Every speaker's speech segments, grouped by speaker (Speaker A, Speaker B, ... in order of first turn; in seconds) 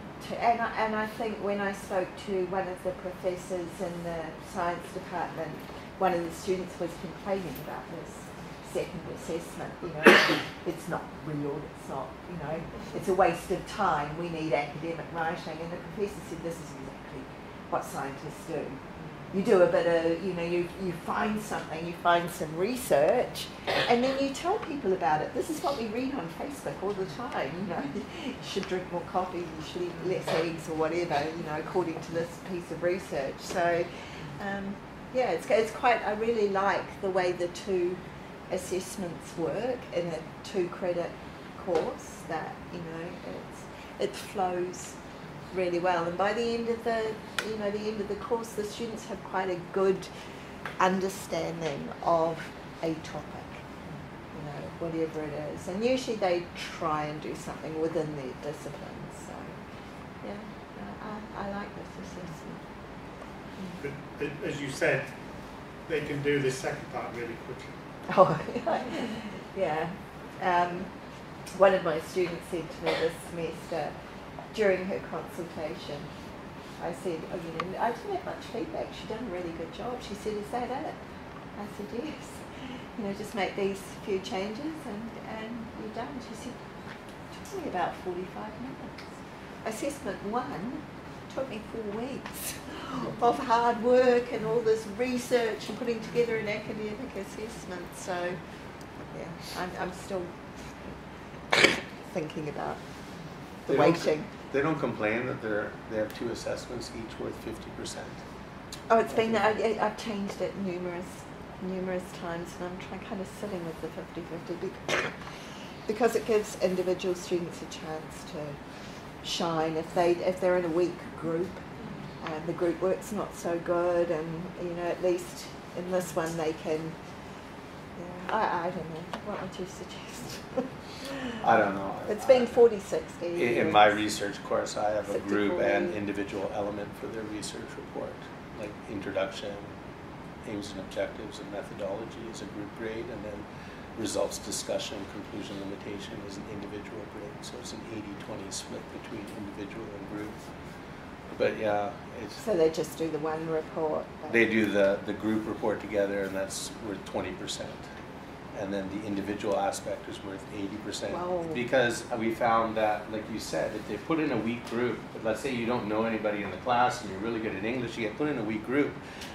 Speaker A: 0.2-53.7, 54.3-59.6, 60.1-63.8, 68.1-76.1, 76.8-104.3, 108.9-131.4, 132.1-134.0, 135.1-136.0, 152.4-154.4, 161.1-161.6
Speaker B: 63.8-67.8
Speaker C: 103.7-108.2, 109.1-109.4, 131.4-132.6, 133.3-139.7, 140.4-150.5, 151.3-152.4, 154.3-157.9, 158.5-169.0